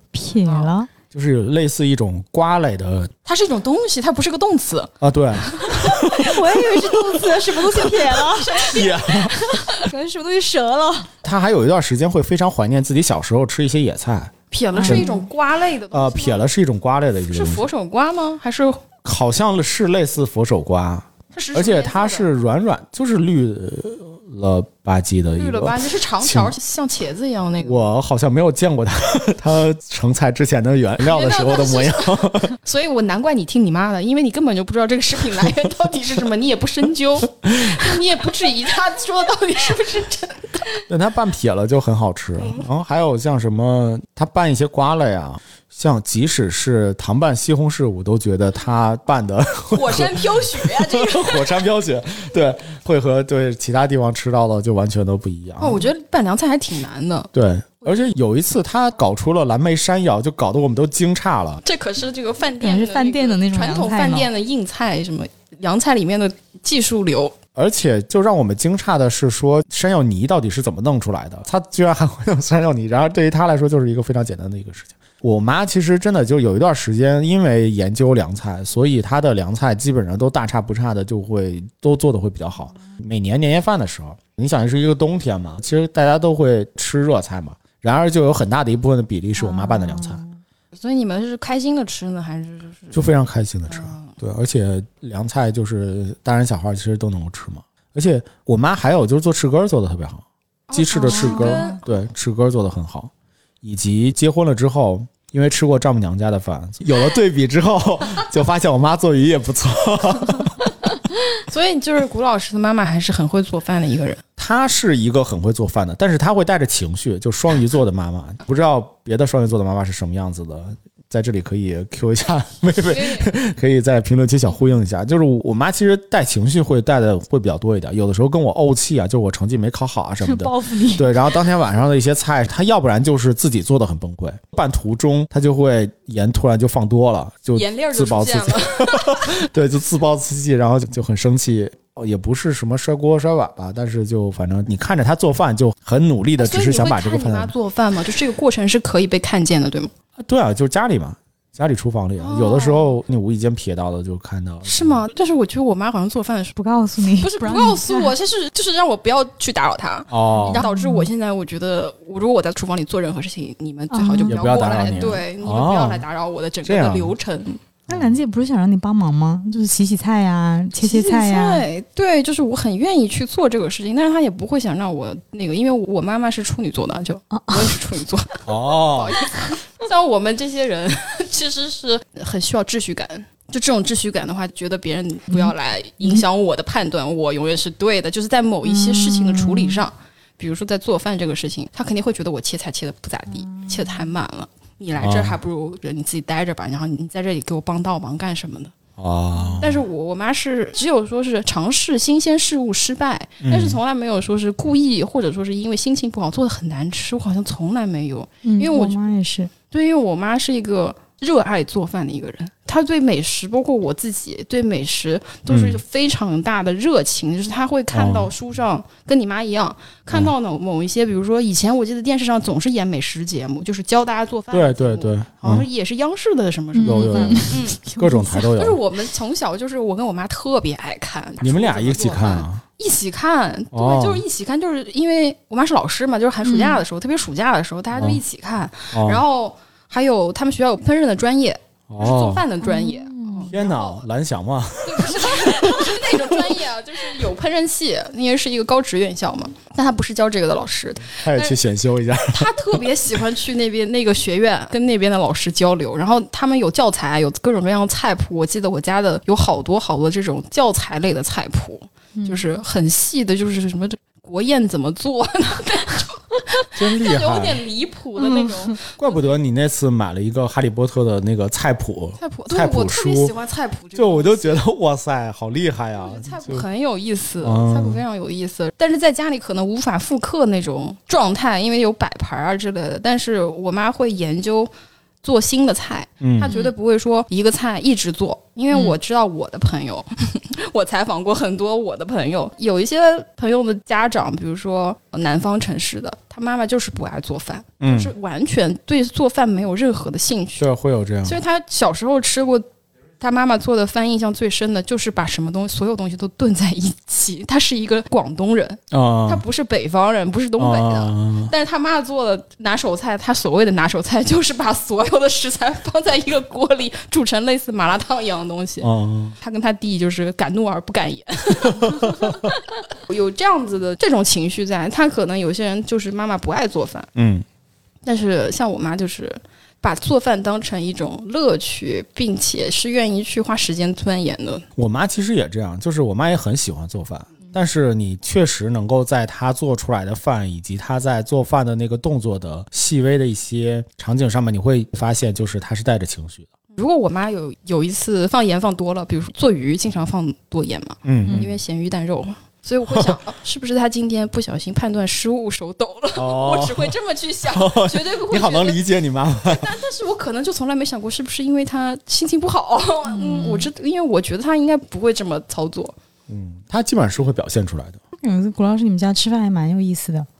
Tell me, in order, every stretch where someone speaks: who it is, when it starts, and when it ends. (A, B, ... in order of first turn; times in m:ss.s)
0:00.1-0:00.9 A
0:00.4-0:00.7 B
0:01.1-0:03.1 C
0:03.2-0:06.0 B
0:05.0-0:07.2 C
0:06.1-0:11.1 A
0:07.8-0:09.8 B
0:08.6-0:09.4 C
0:11.2-0:14.3 C
0:14.5-0:16.5 B
0:14.7-0:15.2 A
0:14.8-0:15.1 C
0:15.9-0:17.7 C
0:17.3-0:18.8 B
0:19.0-0:26.6 C
0:21.3-0:22.2 B
0:25.4-0:27.9 B
0:27.6-0:32.5 C
0:31.0-0:40.8 B
0:37.4-0:37.8 C
0:40.9-0:55.9 C
0:49.7-0:51.6 B
0:55.6-0:57.3 B
0:57.3-1:01.6 C
1:01.6-1:07.4 B
1:02.6-1:04.3 A
1:07.5-1:30.2 C
1:29.4-1:30.3 A
1:30.7-1:33.1 B
1:32.9-1:43.1 C
1:33.7-1:34.2 B
1:40.7-1:42.0 B
1:40.9-1:41.8 A
1:43.6-1:50.6 C
1:51.3-1:54.2 B
1:54.4-2:27.5 C
2:02.8-2:03.3 B
2:10.2-2:11.2 A
2:17.5-2:19.4 B
2:26.4-2:29.9 B
2:30.2-2:35.0 C
2:32.2-2:33.0 B
2:34.6-2:36.6 B
2:36.6-2:38.1 A
2:37.2-2:47.6 B
2:40.1-2:40.6 C
2:40.5-2:41.1 A
2:43.9-2:44.4 A
2:44.2-2:46.0 C
2:46.6-2:47.1 C
2:47.9-2:51.6 A
2:47.9-2:48.2 C
2:50.8-3:18.7 B
2:57.3-2:57.7 A
2:58.4-2:59.2 C
3:05.3-3:06.2 A
3:08.7-3:09.8 A
3:13.4-3:13.9 A
3:15.0-3:15.4 C
3:19.0-3:19.8 C
3:19.6-3:29.0 B
3:23.4-3:23.8 C
3:28.4-3:29.5 A
3:29.7-4:04.0 B
3:35.5-3:35.8 C
3:37.9-3:38.3 C
3:44.5-3:45.7 C
3:46.7-3:48.4 A
3:46.8-3:48.8 C
3:51.4-3:52.6 C
3:53.7-3:54.2 C
3:56.4-3:56.8 A
3:57.9-3:58.2 C
3:58.9-3:59.2 C
4:01.9-4:02.4 C
4:02.6-4:03.5 A
4:03.5-4:06.5 C
4:04.8-4:11.6 B
4:11.2-4:12.8 C
4:12.2-4:29.4 B
4:22.2-4:22.4 A
4:26.8-4:27.6 C
4:28.2-4:28.8 A
4:29.0-4:33.3 C
4:32.2-4:34.6 B
4:33.9-4:36.6 C
4:36.0-4:44.7 B
4:37.4-4:38.0 C
4:45.2-5:00.7 B
4:46.2-4:46.5 C
4:48.7-4:49.0 A
4:57.8-4:58.1 C
5:00.6-5:01.4 C
5:01.2-5:02.6 B
5:03.2-5:27.1 B
5:08.9-5:09.4 C
5:10.6-5:11.5 C
5:18.8-5:19.4 C
5:21.7-5:22.5 C
5:27.1-5:27.4 C
5:28.0-5:34.6 B
5:34.8-5:46.5 C
5:46.7-5:58.8 B
5:51.0-5:51.5 C
5:52.9-5:53.2 C
5:56.1-5:56.9 C
5:57.5-5:59.7 C
5:59.4-6:05.9 B
6:03.1-6:03.7 A
6:06.3-6:08.0 C
6:08.2-6:10.3 A